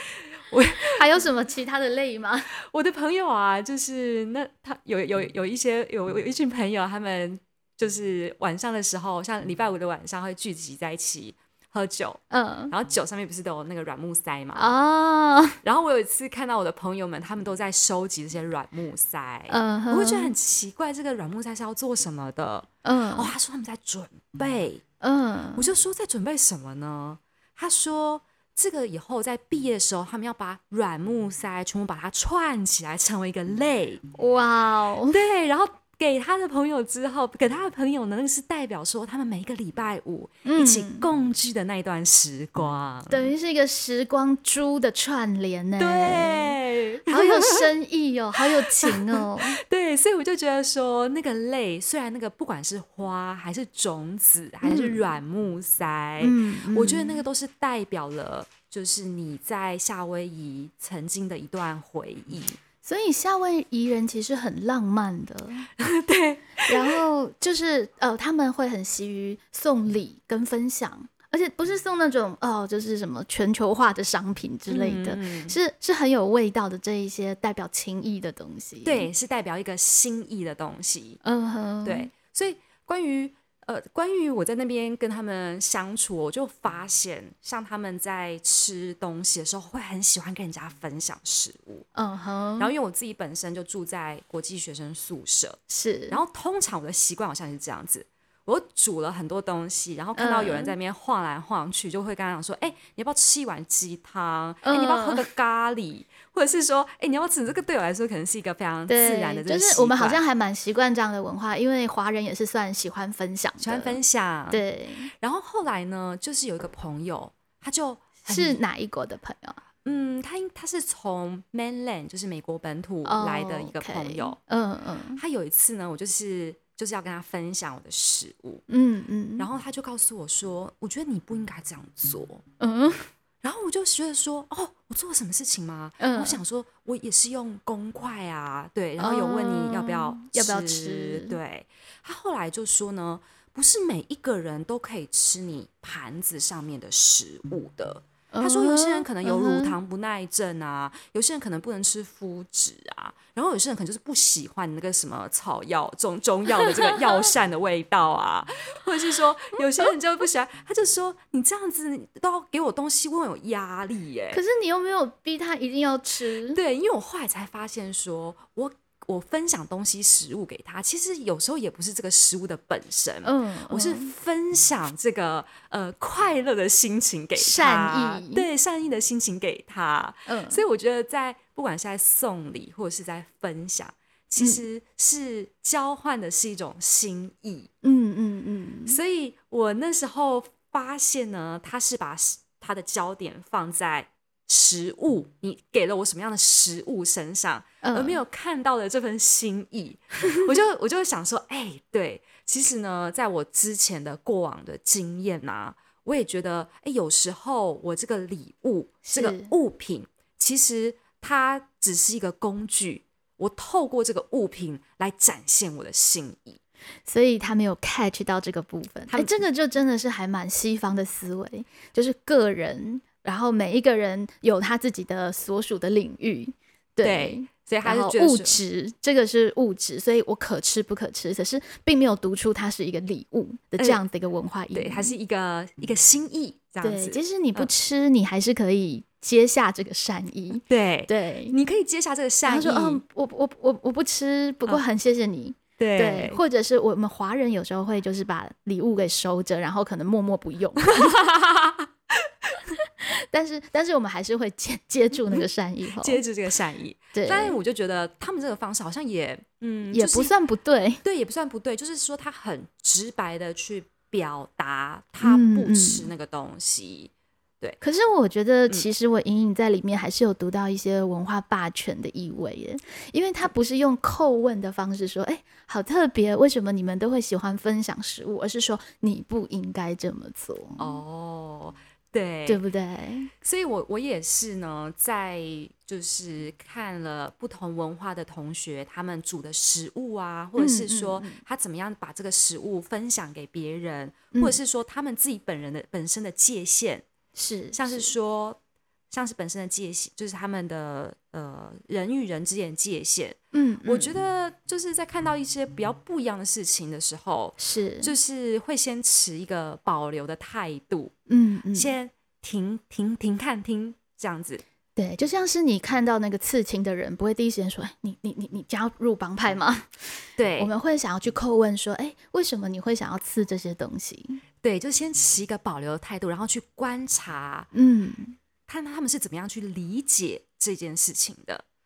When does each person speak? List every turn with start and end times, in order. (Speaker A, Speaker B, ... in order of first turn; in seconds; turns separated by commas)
Speaker A: 0.1-1.0, Speaker B: 0.8-2.5, Speaker A: 2.6-12.2, Speaker B: 12.3-12.7, Speaker A: 12.7-14.7, Speaker B: 14.6-15.6, Speaker A: 15.6-24.8, Speaker B: 19.5-20.3, Speaker B: 22.8-23.3, Speaker B: 25.0-25.7, Speaker A: 25.6-34.0, Speaker B: 34.1-35.2, Speaker A: 35.1-43.3, Speaker B: 40.4-41.1, Speaker B: 43.1-49.6, Speaker A: 45.8-47.7, Speaker A: 48.4-62.6, Speaker B: 54.6-55.1, Speaker B: 56.2-57.2, Speaker B: 62.8-65.7, Speaker A: 65.8-67.0, Speaker B: 66.7-79.1, Speaker A: 74.7-75.6, Speaker A: 78.8-81.2, Speaker B: 81.2-82.1, Speaker A: 81.8-91.8, Speaker B: 91.9-92.7, Speaker A: 92.6-95.6, Speaker B: 95.7-96.2, Speaker A: 96.1-110.2, Speaker B: 100.2-100.7, Speaker B: 104.6-105.2, Speaker B: 108.9-114.0, Speaker A: 113.6-114.6, Speaker B: 114.5-115.1, Speaker A: 115.2-118.6, Speaker B: 118.3-119.6, Speaker A: 119.8-124.4, Speaker B: 123.0-125.2, Speaker A: 125.2-128.6, Speaker B: 128.7-129.5, Speaker A: 129.4-132.4, Speaker B: 132.6-133.1, Speaker A: 133.4-164.4, Speaker B: 136.0-136.4, Speaker B: 139.0-141.4, Speaker B: 148.3-149.7, Speaker B: 156.7-157.1, Speaker B: 164.3-166.6, Speaker A: 166.5-187.7, Speaker B: 173.2-174.1, Speaker B: 177.4-178.5, Speaker B: 180.3-180.6, Speaker B: 187.8-189.0, Speaker A: 188.8-216.6, Speaker B: 197.8-198.2, Speaker B: 209.1-209.5, Speaker B: 217.1-235.1, Speaker A: 219.1-219.4, Speaker A: 227.0-228.6, Speaker A: 234.7-237.7, Speaker B: 236.8-241.6, Speaker A: 240.7-243.0, Speaker B: 242.4-251.2, Speaker A: 245.8-246.4, Speaker A: 250.8-252.5, Speaker B: 252.7-256.2, Speaker A: 256.0-260.3, Speaker B: 257.1-257.6, Speaker B: 259.9-261.0, Speaker A: 261.0-267.8, Speaker B: 265.2-266.1, Speaker B: 267.8-280.9, Speaker A: 280.8-282.6, Speaker B: 282.5-283.3, Speaker A: 283.4-297.0, Speaker B: 290.6-291.4, Speaker B: 297.3-298.1, Speaker A: 297.7-298.6, Speaker A: 299.1-311.1, Speaker B: 303.5-304.1, Speaker B: 307.6-308.1, Speaker B: 311.3-311.9, Speaker A: 311.7-314.6, Speaker B: 315.0-324.4, Speaker A: 320.4-320.7, Speaker A: 324.6-327.7, Speaker B: 327.7-328.4, Speaker A: 328.7-331.6